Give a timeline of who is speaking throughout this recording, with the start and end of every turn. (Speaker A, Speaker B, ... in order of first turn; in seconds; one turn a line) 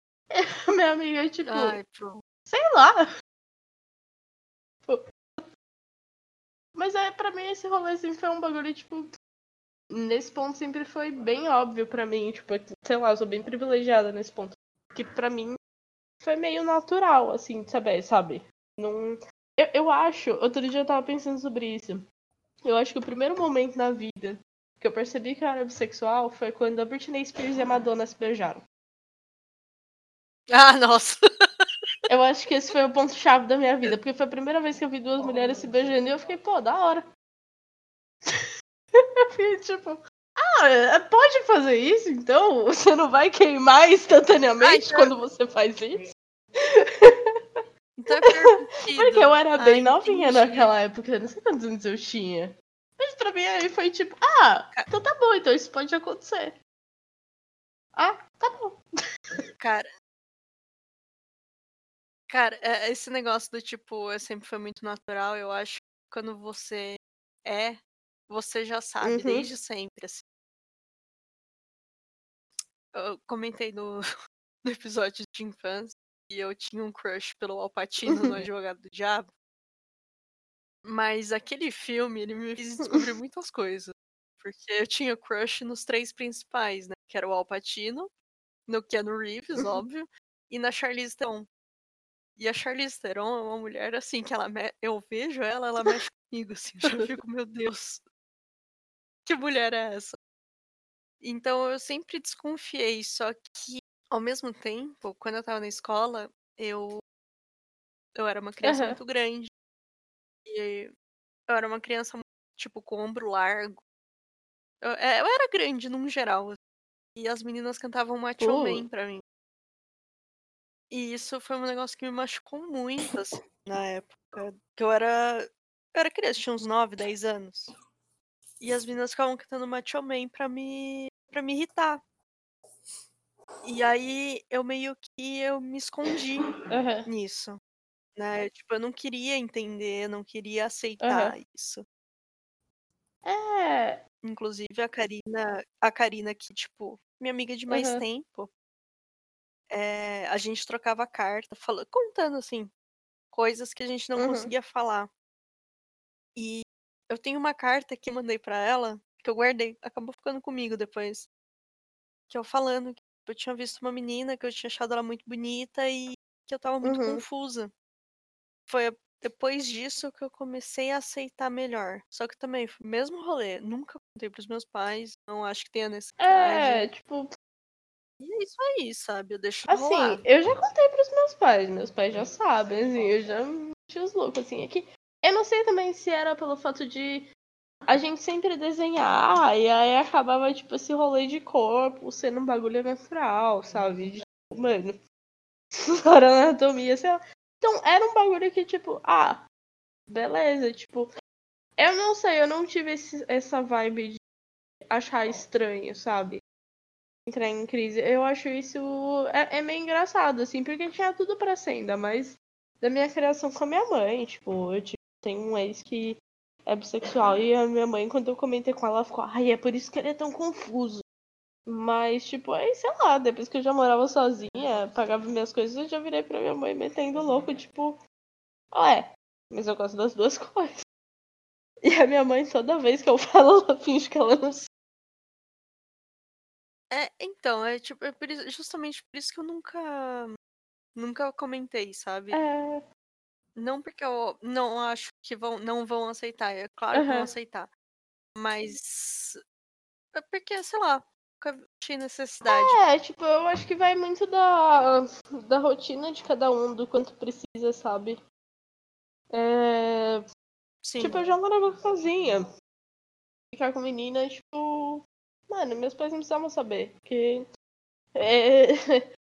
Speaker A: 0.3-1.8
Speaker B: 1.5-2.2
Speaker A: 2.5-3.1
Speaker A: 6.8-9.1
Speaker A: 9.9-15.6
Speaker A: 16.2-22.1
Speaker A: 22.6-28.6
Speaker B: 30.5-31.7
Speaker A: 32.1-37.0
Speaker A: 38.3-56.5
Speaker B: 44.6-45.1
Speaker B: 48.0-50.7
Speaker A: 58.0-59.4
Speaker B: 59.6-59.9
Speaker B: 62.3-70.2
Speaker A: 69.0-69.5
Speaker B: 72.9-74.1
Speaker B: 74.7-79.3
Speaker B: 80.8-88.1
Speaker B: 88.7-91.5
Speaker B: 92.4-98.0
Speaker B: 99.3-100.2
Speaker B: 101.2-107.0
Speaker B: 108.2-109.5
Speaker A: 108.6-109.0
Speaker B: 110.5-110.9
Speaker B: 111.5-113.8
Speaker B: 114.8-116.6
Speaker B: 117.2-119.2
Speaker A: 118.4-118.8
Speaker B: 120.9-127.7
Speaker B: 128.6-132.0
Speaker B: 133.6-136.5
Speaker A: 136.7-137.1
Speaker B: 137.1-137.6
Speaker B: 138.2-141.8
Speaker A: 141.0-141.3
Speaker A: 143.2-144.0
Speaker B: 144.2-148.5
Speaker A: 147.7-148.0
Speaker B: 149.7-152.7
Speaker B: 153.3-155.1
Speaker A: 154.2-154.5
Speaker B: 156.4-161.3
Speaker B: 162.3-167.7
Speaker A: 166.8-167.2
Speaker B: 168.7-176.9
Speaker A: 176.2-177.3
Speaker B: 178.2-180.2
Speaker A: 179.7-187.3
Speaker A: 187.9-195.0
Speaker A: 195.8-199.4
Speaker A: 200.1-201.1
Speaker A: 201.8-204.2
Speaker A: 204.9-206.4
Speaker A: 207.3-221.0
Speaker A: 221.7-228.0
Speaker A: 228.7-230.8
Speaker A: 231.8-234.7
Speaker B: 236.9-240.4
Speaker B: 241.0-242.4
Speaker A: 242.3-242.8
Speaker B: 243.6-247.7
Speaker A: 246.9-247.3
Speaker B: 248.4-249.4
Speaker B: 250.1-252.8
Speaker A: 252.5-258.2
Speaker A: 259.3-260.2
Speaker B: 260.8-261.2
Speaker A: 261.0-262.5
Speaker A: 263.5-267.5
Speaker A: 268.1-269.0